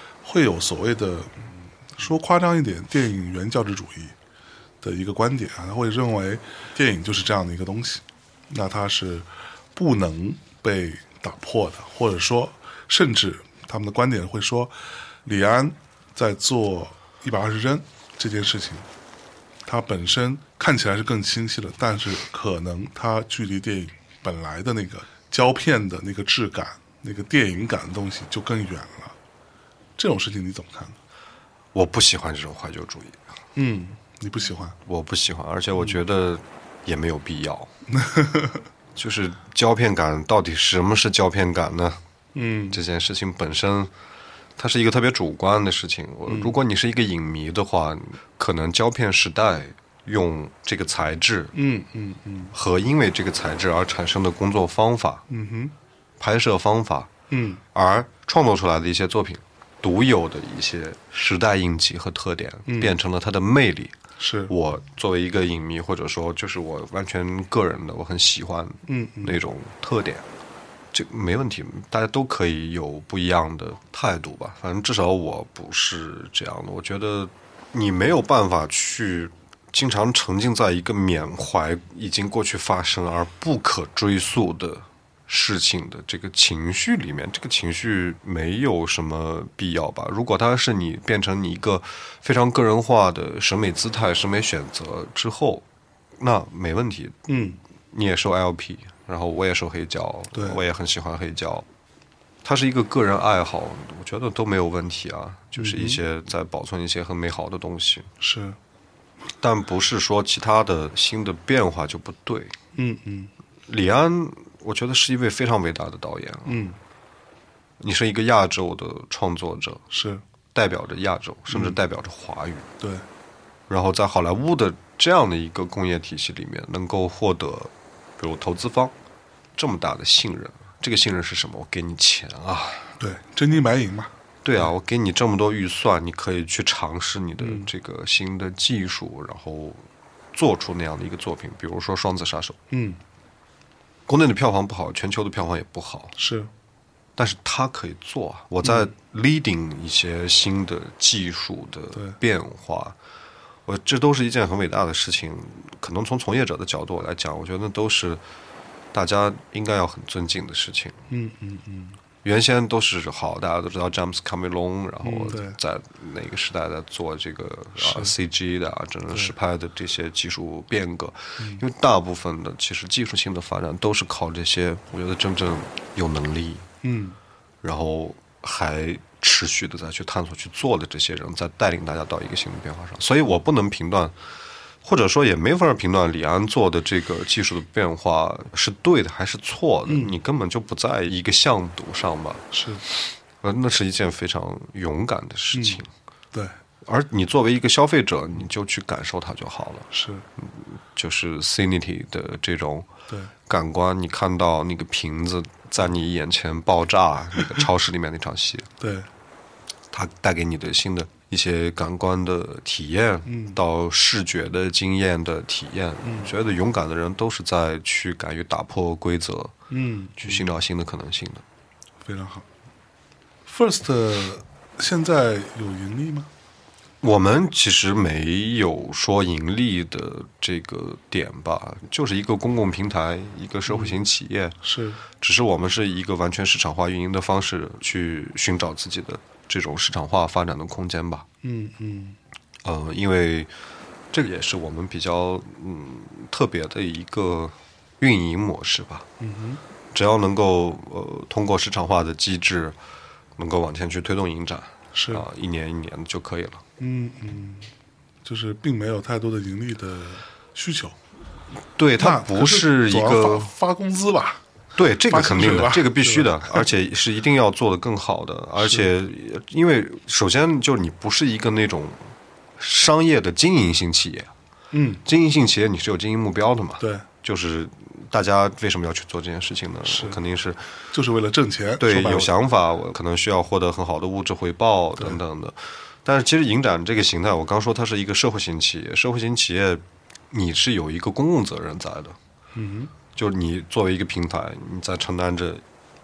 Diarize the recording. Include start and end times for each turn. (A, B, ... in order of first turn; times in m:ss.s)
0:00.2-0:04.2 A
0:04.8-0:14.7 A
0:15.2-0:18.9 A
0:19.6-0:29.2 A
0:30.0-0:31.0 A
0:31.7-0:33.2 B
0:33.6-0:34.8 A
0:34.8-0:37.7 B
0:37.9-0:38.6 A
0:39.0-0:42.0 B
0:42.3-0:42.8 A
0:42.7-0:43.9 B
0:44.6-0:51.5 B
0:46.3-0:46.6 A
0:51.5-0:52.5 A
0:52.5-0:55.2 B
0:55.3-0:55.7 A
0:56.2-0:57.1 B
0:57.3-0:57.6 A
0:57.7-1:03.9 B
1:02.7-1:02.9 A
1:04.2-1:04.5 A
1:04.5-1:10.2 B
1:08.9-1:09.4 A
1:10.9-1:35.6 B
1:36.2-1:37.2 B
1:37.3-1:37.6 A
1:37.9-1:41.6 B
1:40.3-1:40.6 A
1:42.4-1:48.1 B
1:45.6-1:46.0 A
1:48.2-1:48.6 A
1:49.4-1:52.5 B
1:52.7-1:53.3 A
1:53.7-1:56.6 B
1:56.4-1:56.8 A
1:57.8-1:59.8 B
1:59.9-2:00.2 A
2:00.5-2:02.7 B
2:01.5-2:01.8 A
2:02.8-2:03.0 A
2:03.7-2:08.9 B
2:09.6-2:13.0 B
2:13.0-2:14.1 A
2:14.4-2:22.6 B
2:17.4-2:17.7 A
2:22.7-2:23.0 A
2:24.1-2:26.1 B
2:26.2-2:26.5 A
2:27.2-2:33.0 B
2:28.6-2:28.9 A
2:33.7-2:38.2 B
2:38.9-2:41.0 B
2:41.1-2:42.0 A
2:42.2-2:56.6 B
2:45.0-2:45.6 A
2:47.8-2:48.1 A
2:56.8-2:57.2 A
2:57.6-3:04.2 B
3:04.8-3:15.9 B
3:09.9-3:10.2 A
3:12.5-3:12.8 A
3:15.5-3:15.8 A
3:16.8-3:22.9 B
3:19.9-3:20.2 A
3:23.5-3:28.7 B
3:28.8-3:29.1 A
3:29.9-3:39.5 B
3:33.2-3:33.6 A
3:36.0-3:36.3 A
3:39.7-3:40.5 A
3:40.2-3:41.4 B
3:42.0-3:42.4 A
3:43.4-3:46.3 A
3:47.0-3:54.6 B
3:53.7-3:54.0 A
3:54.6-3:55.0 A
3:55.2-4:01.2 B
4:01.4-4:02.2 A
4:02.6-4:03.5 B
4:04.1-4:09.1 B
4:09.2-4:09.6 A
4:09.9-4:12.8 B
4:13.4-4:16.6 B
4:14.9-4:15.2 A
4:16.8-4:17.7 A
4:18.2-4:21.0 A
4:21.8-4:23.5 B
4:22.0-4:24.4 A
4:24.8-4:34.3 B
4:25.1-4:26.7 A
4:28.6-4:28.9 A
4:34.7-4:35.0 A
4:35.0-4:40.7 B
4:36.8-4:37.0 A
4:39.8-4:40.2 A
4:40.9-4:42.3 A
4:41.8-4:52.2 B
4:52.5-4:52.9 A
4:53.1-4:55.6 B